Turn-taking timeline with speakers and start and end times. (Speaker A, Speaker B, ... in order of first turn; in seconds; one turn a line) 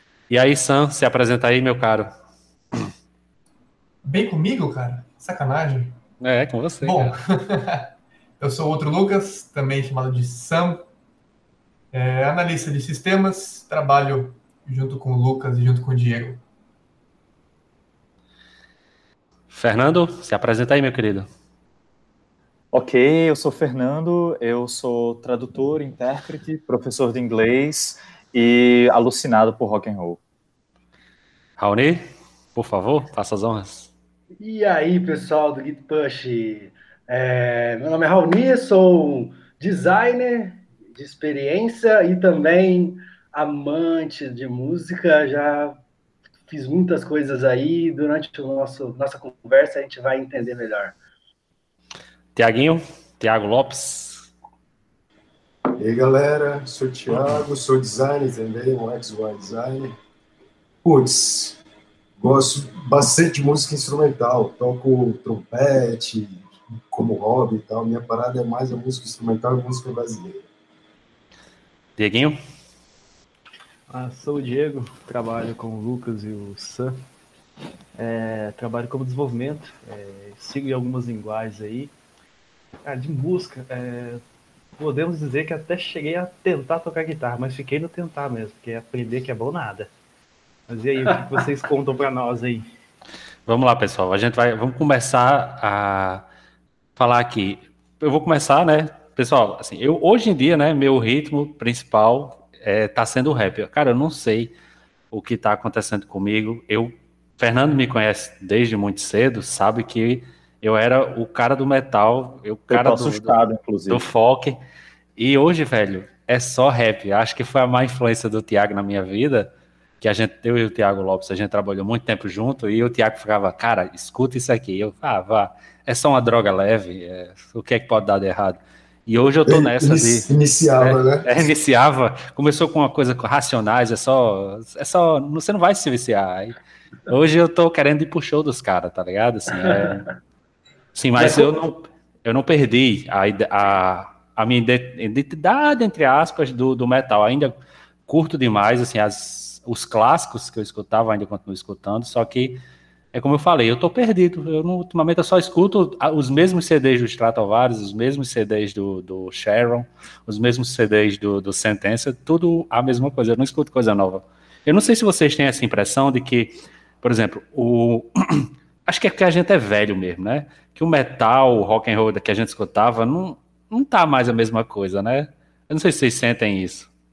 Speaker A: 0.3-2.1
Speaker B: 4.0-6.0
Speaker A: 6.2-7.2
Speaker B: 6.8-10.8
Speaker B: 11.9-16.4
Speaker A: 19.5-21.3
Speaker C: 22.7-30.2
Speaker A: 31.6-32.0
Speaker A: 32.5-33.9
Speaker D: 34.4-45.8
Speaker D: 46.5-51.0
Speaker A: 52.4-54.3
Speaker E: 55.8-60.0
Speaker E: 60.8-61.6
Speaker E: 62.2-70.5
Speaker A: 72.0-72.4
Speaker F: 73.9-76.9
Speaker F: 78.0-81.9
Speaker F: 82.8-84.2
Speaker F: 84.8-89.9
Speaker F: 90.7-92.7
Speaker D: 91.1-91.4
Speaker A: 93.5-96.3
Speaker A: 97.0-104.5
Speaker A: 105.1-113.4
Speaker C: 112.7-114.1
Speaker A: 113.9-114.6
Speaker A: 115.2-136.6
Speaker E: 129.4-131.3
Speaker A: 137.1-140.1
Speaker D: 139.6-140.1
Speaker A: 140.9-147.5
Speaker D: 141.2-141.5
Speaker A: 148.1-152.6
Speaker A: 153.1-176.9